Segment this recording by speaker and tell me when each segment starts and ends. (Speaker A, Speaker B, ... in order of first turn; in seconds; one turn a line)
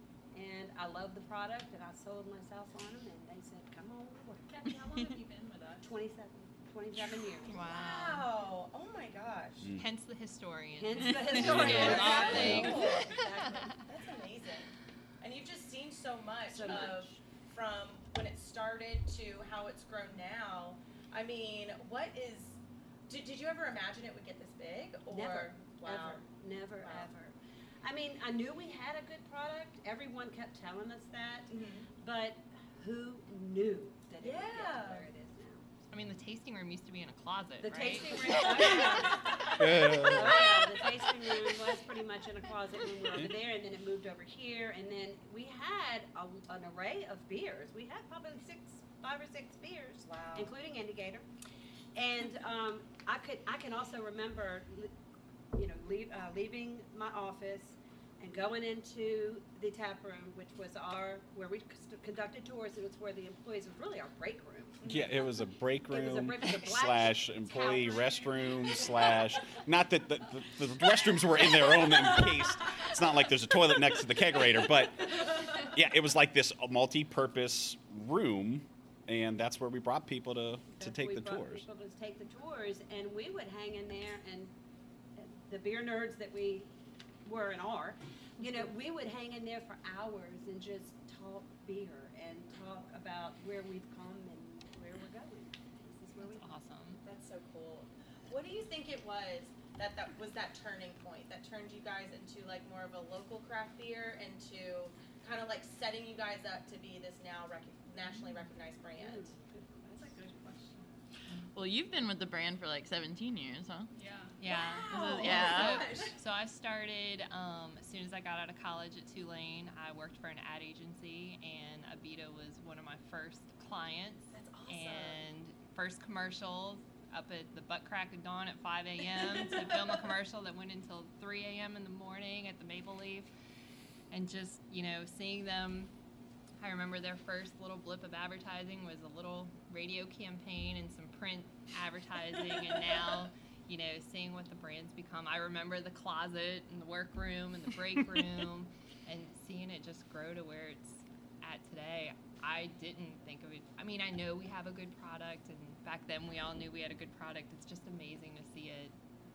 Speaker A: 0.3-4.8
Speaker B: 4.5-5.9
Speaker A: 5.8-7.7
Speaker C: 7.4-8.3
Speaker D: 7.6-9.7
Speaker C: 9.8-13.7
Speaker A: 10.8-13.4
Speaker D: 11.3-26.2
Speaker E: 11.4-12.7
Speaker A: 16.5-17.2
Speaker A: 25.1-35.7
Speaker D: 26.8-27.1
Speaker D: 31.5-31.9
Speaker D: 34.2-35.1
Speaker C: 35.9-38.8
Speaker A: 37.6-51.2
Speaker E: 39.6-40.4
Speaker A: 51.9-54.9
Speaker A: 55.5-65.2
Speaker E: 64.8-81.7
Speaker A: 65.9-69.6
Speaker D: 75.2-75.6
Speaker A: 80.7-84.5
Speaker A: 85.2-86.7
Speaker A: 87.2-96.5
Speaker C: 96.2-97.0
Speaker D: 97.0-109.3
Speaker A: 109.0-110.1
Speaker B: 109.9-110.9
Speaker F: 111.5-113.9
Speaker B: 113.9-114.4
Speaker C: 114.4-133.3
Speaker D: 114.5-116.2
Speaker F: 114.9-115.9
Speaker D: 124.3-125.2
Speaker C: 134.1-135.9
Speaker C: 136.6-158.9